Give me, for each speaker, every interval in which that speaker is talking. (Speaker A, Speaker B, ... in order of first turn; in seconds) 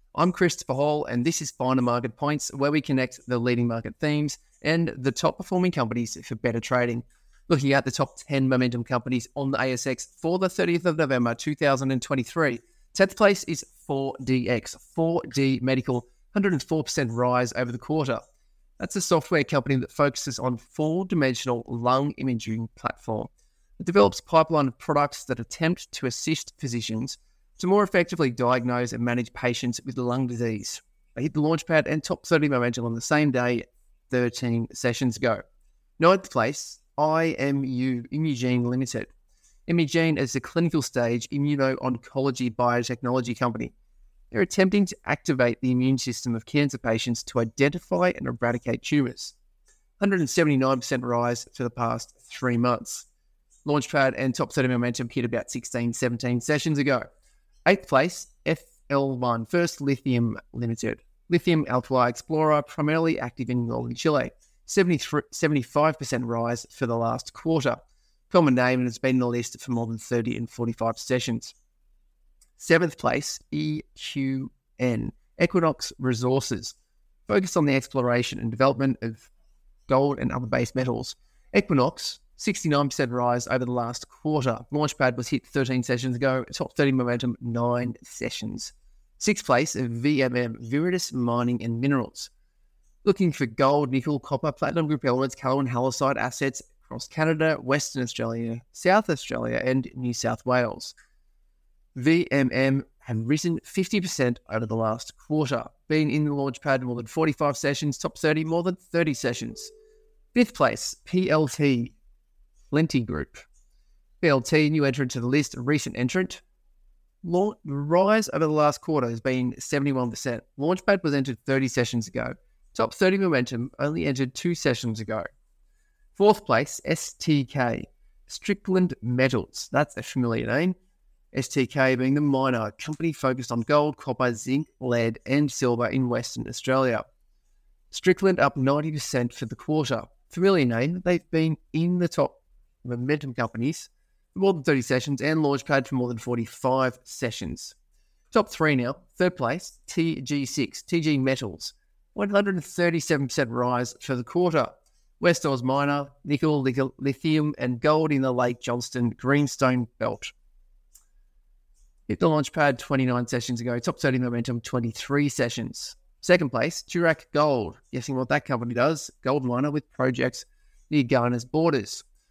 Speaker A: 0.1-18.2, 18.8-35.4, 36.0-39.1, 39.7-43.7, 44.3-49.4, 50.0-53.1, 53.6-57.0, 57.7-71.5, 72.6-76.8, 77.3-79.3, 79.9-92.3, 93.0-100.9, 102.0-109.7, 110.3-112.0, 112.7-113.5, 114.2-116.4, 117.2-125.3, 126.2-130.8, 131.3-137.1, 137.9-147.8, 148.3-160.3, 162.1-172.1